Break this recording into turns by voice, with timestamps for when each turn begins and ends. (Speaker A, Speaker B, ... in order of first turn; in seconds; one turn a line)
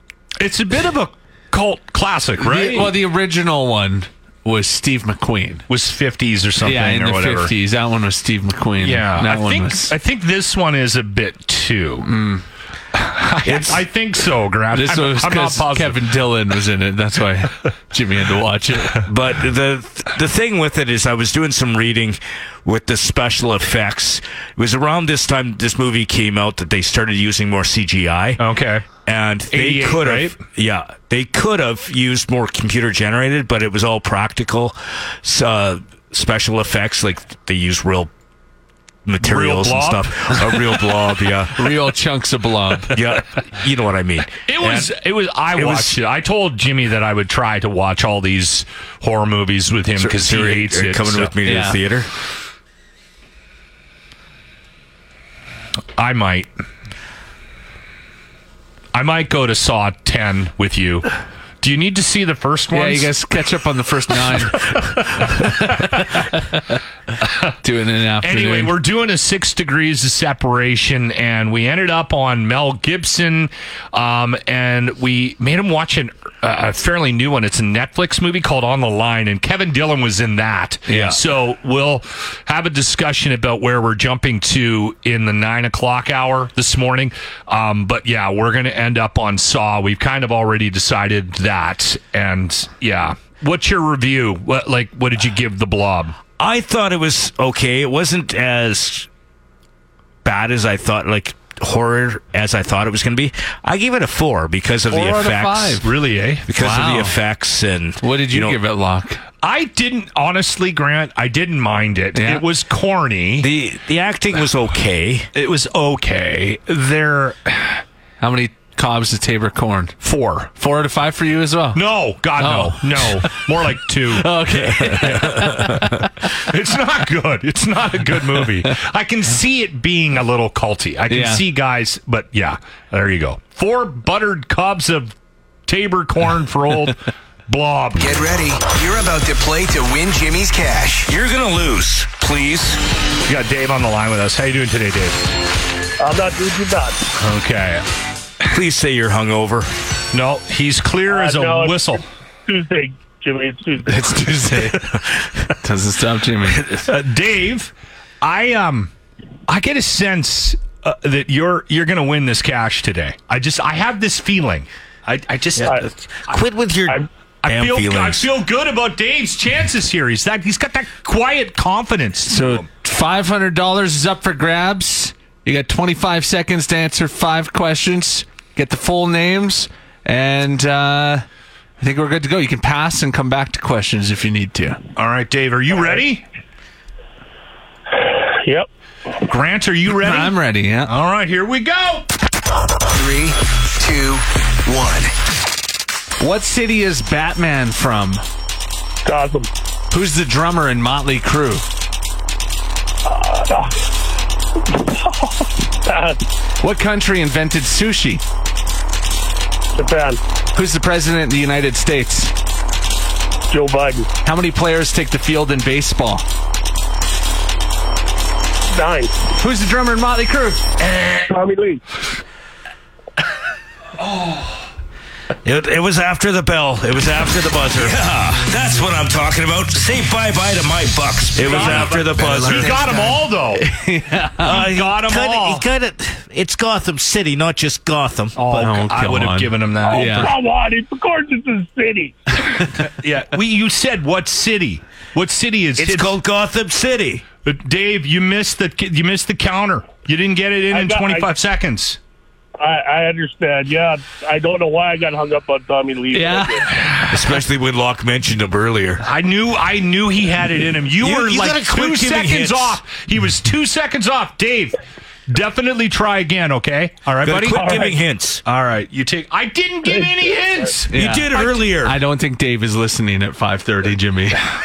Speaker A: 0.4-3.0
Speaker B: 2.4-5.6
Speaker A: 5.7-7.5
Speaker B: 6.6-9.9
Speaker A: 8.8-12.1
Speaker B: 12.0-12.4
Speaker A: 12.9-16.0
Speaker C: 13.4-13.8
Speaker B: 14.7-19.1
Speaker C: 19.0-28.4
Speaker A: 28.4-28.8
Speaker C: 29.0-38.1
Speaker A: 29.5-30.4
Speaker C: 39.0-41.7
Speaker A: 39.2-40.5
Speaker B: 41.5-43.0
Speaker C: 42.9-44.9
Speaker A: 44.5-51.3
Speaker C: 45.5-46.0
Speaker C: 50.0-52.1
Speaker B: 51.4-51.8
Speaker A: 56.0-56.5
Speaker A: 58.9-61.1
Speaker A: 61.6-63.1
Speaker B: 62.7-66.6
Speaker A: 65.2-65.8
Speaker B: 67.6-68.7
Speaker A: 68.2-96.2
Speaker B: 80.9-81.2
Speaker C: 96.4-99.1
Speaker C: 100.2-105.8
Speaker B: 104.9-105.9
Speaker A: 105.8-106.4
Speaker C: 106.5-108.6
Speaker B: 106.5-107.2
Speaker B: 108.0-109.2
Speaker A: 109.4-113.5
Speaker B: 112.1-112.4
Speaker C: 113.4-115.3
Speaker A: 115.3-117.8
Speaker B: 118.2-120.0
Speaker A: 120.0-120.5
Speaker B: 120.5-121.8
Speaker A: 121.7-135.1
Speaker B: 122.4-126.3
Speaker B: 131.1-131.4
Speaker A: 135.7-138.2
Speaker D: 138.0-141.1
Speaker C: 141.1-142.8
Speaker A: 143.2-145.2
Speaker E: 146.0-147.0
Speaker A: 147.2-147.8
Speaker C: 148.5-149.7
Speaker A: 150.1-152.0
Speaker E: 151.1-154.3
Speaker B: 153.9-156.8
Speaker A: 154.5-154.9
Speaker A: 156.5-158.9
Speaker A: 159.5-165.9
Speaker C: 165.6-168.2
Speaker A: 167.4-172.6
Speaker B: 172.3-181.2
Speaker B: 181.8-184.8
Speaker A: 184.9-186.2
Speaker E: 188.0-188.7
Speaker A: 189.2-192.1
Speaker B: 189.9-190.9
Speaker D: 192.9-195.1
Speaker B: 196.2-198.2
Speaker E: 199.0-199.5
Speaker B: 199.9-201.6
Speaker E: 203.0-203.8
Speaker E: 204.7-206.2
Speaker B: 206.6-208.2
Speaker E: 209.7-210.2
Speaker B: 210.5-212.3
Speaker E: 213.5-214.1
Speaker B: 214.2-216.2
Speaker E: 218.7-219.2
Speaker B: 219.4-220.6
Speaker E: 221.3-221.8
Speaker A: 224.0-224.6
Speaker C: 225.4-233.0
Speaker A: 231.4-233.7
Speaker D: 231.4-233.2
Speaker B: 233.6-234.6
Speaker C: 234.4-238.7
Speaker A: 234.4-235.7
Speaker A: 238.3-240.3
Speaker B: 238.5-240.3
Speaker E: 239.8-242.2
Speaker A: 242.8-246.1
Speaker C: 245.8-247.2
Speaker A: 247.4-252.0
Speaker E: 250.7-251.3
Speaker E: 252.6-256.7
Speaker B: 256.1-256.7
Speaker C: 257.1-259.0
Speaker A: 259.0-267.9
Speaker C: 261.0-262.8
Speaker C: 267.2-268.4
Speaker E: 267.5-267.9
Speaker A: 268.4-271.6
Speaker E: 269.9-270.2
Speaker B: 270.9-274.5
Speaker C: 270.9-272.0